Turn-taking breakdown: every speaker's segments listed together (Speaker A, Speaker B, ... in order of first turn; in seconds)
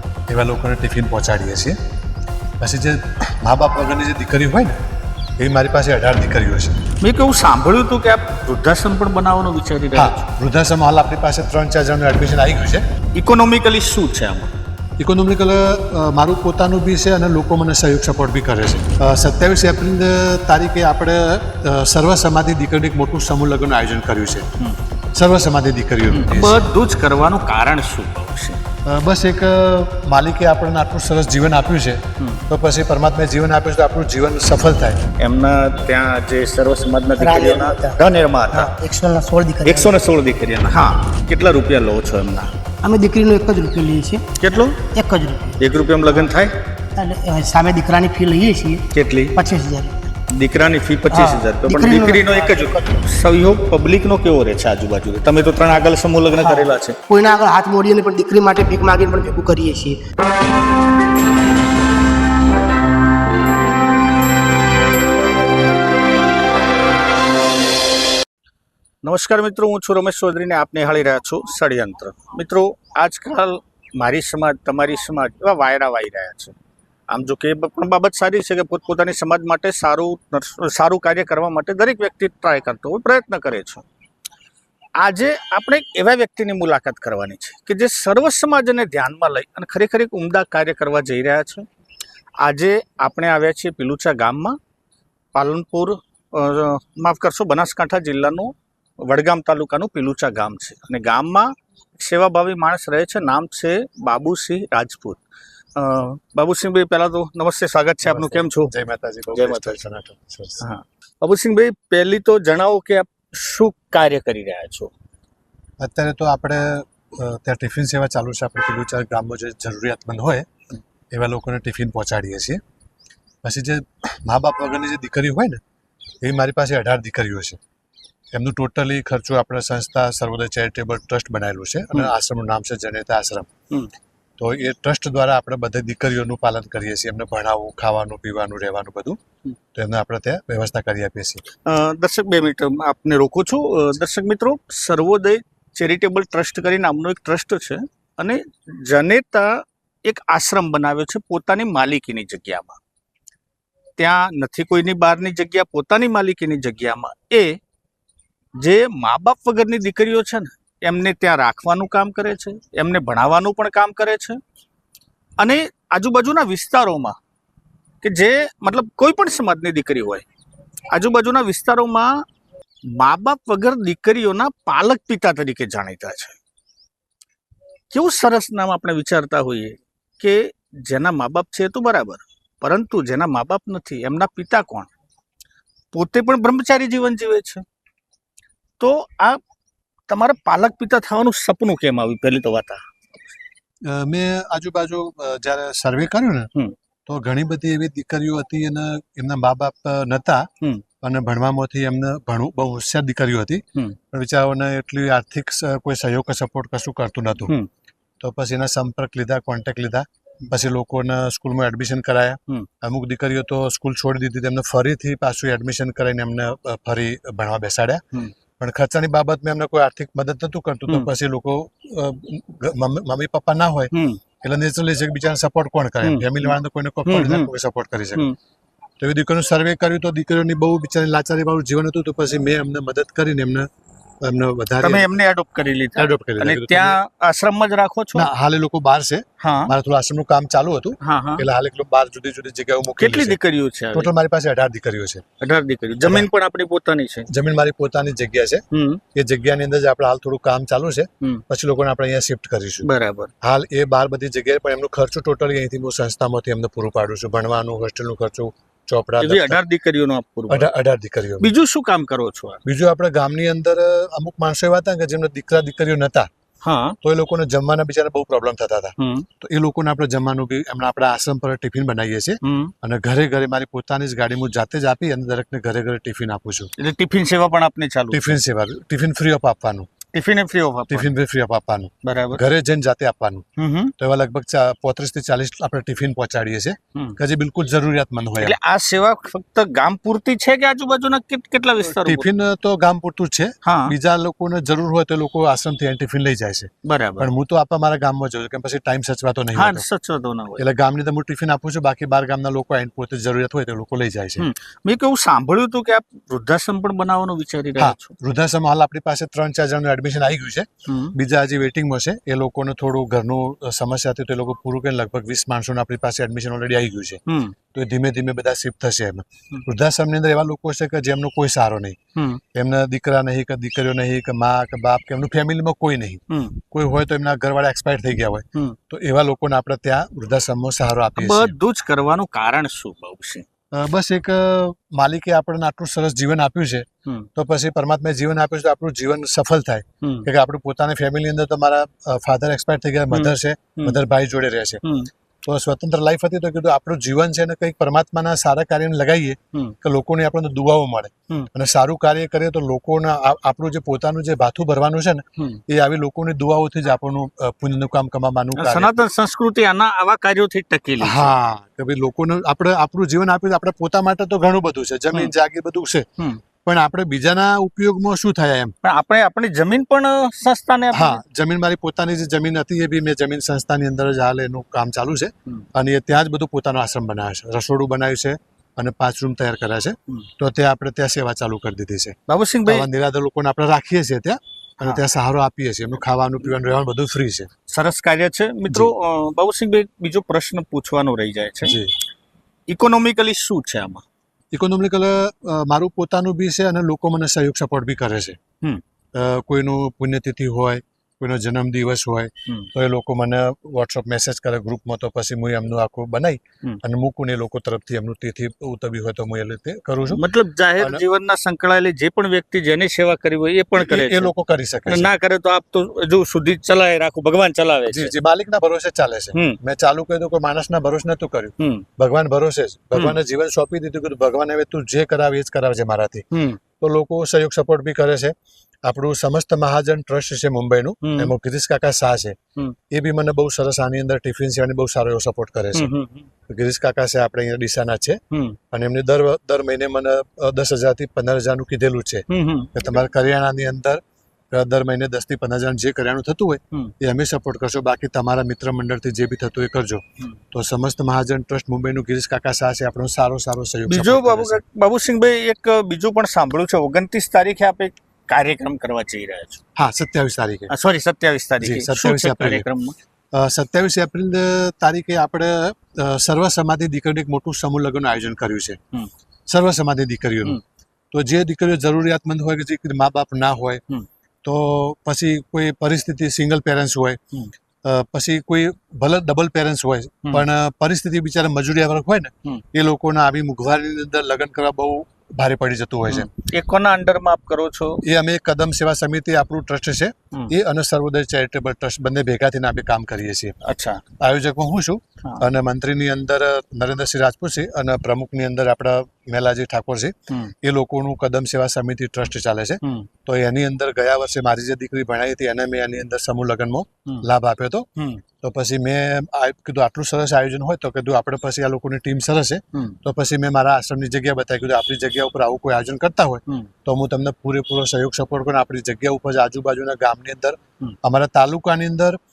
Speaker A: 0.3-1.8, 2.6-4.8, 5.4-6.8, 9.9-12.8, 15.0-24.5, 25.1-26.6, 28.9-35.0, 108.0-110.6, 115.8-120.5, 121.1-122.6, 123.4-125.6, 126.2-127.6, 128.3-133.5, 134.4-139.2, 139.7-141.4, 193.8-196.5, 197.1-200.5, 201.0-207.5, 208.2-218.0, 218.6-228.3, 229.0-233.7, 234.2-235.1, 235.9-237.0, 238.1-243.4, 243.9-245.2, 247.3-248.6, 249.1-252.9, 253.4-259.6, 260.5-261.5, 262.6-266.3, 267.0-276.7, 278.1-279.9, 280.9-283.4, 284.0-288.5, 291.9-299.8, 300.6-304.5, 307.8-317.2, 317.7-322.0, 322.5-331.5, 333.7-344.8, 345.4-358.9, 361.0-366.1, 366.6-368.7, 370.9-382.1, 382.7-387.5, 391.6-391.9, 394.5-398.4, 399.1-410.2, 410.8-411.0, 413.7-415.1, 417.9-426.2, 426.8-428.3, 428.8-432.4, 432.9-435.9, 436.5-438.2, 438.7-454.6, 459.8-460.7, 461.6-462.6, 463.3-468.8, 469.5-470.6, 471.1-473.8, 474.4-477.2, 477.8-486.3, 488.0-493.6, 494.2-507.9, 508.4-522.2
Speaker B: 7.0-10.2, 13.1-14.5, 26.1-28.6, 35.2-38.7, 39.6-42.5, 44.4-44.8, 45.6-46.5, 48.9-49.4, 50.3-57.0, 69.0-76.5, 77.1-83.8, 85.0-91.7, 92.4-94.6, 95.3-105.2, 105.8-108.7, 109.3-109.8, 110.6-114.9, 141.6-152.8, 154.0-157.6, 158.6-164.4, 165.4-167.1, 168.0-170.2, 170.9-172.2, 172.9-176.3, 177.9-184.9, 185.9-187.6, 188.8-189.4, 190.1-192.8, 223.9-224.2, 226.0-226.5, 227.1-227.5, 234.8-238.3, 239.4-239.7, 241.0-241.4, 243.0-244.1, 245.4-247.3, 248.7-249.0, 252.8-253.3, 259.2-260.7, 261.4-262.6, 266.6-267.0, 269.0-269.3, 272.4-272.7, 276.8-278.4, 280.1-281.1, 282.0-282.4, 283.6-283.9, 288.4-292.3, 293.6-293.9, 296.8-297.3, 299.5-300.6, 304.4-308.1, 310.9-311.1, 317.3-317.5, 322.1-322.4, 326.3-326.6, 331.2-333.4, 340.0-340.3, 343.1-343.9, 344.8-345.1, 358.6-361.3, 368.8-371.2, 382.3-382.9, 387.7-391.8, 392.7-394.0, 410.1-414.3, 414.9-418.1, 419.3-419.6, 421.6-421.9, 426.3-426.6, 431.0-431.3, 435.7-436.3, 438.3-438.6, 442.3-442.7, 453.9-459.6, 460.7-462.9, 486.1-488.0, 493.6-494.0, 502.8-503.1, 507.9-508.2
Speaker C: 37.2-38.0, 38.5-40.0, 42.8-44.2, 44.9-46.3, 47.0-48.8, 49.3-50.0, 51.1-53.0, 56.4-60.0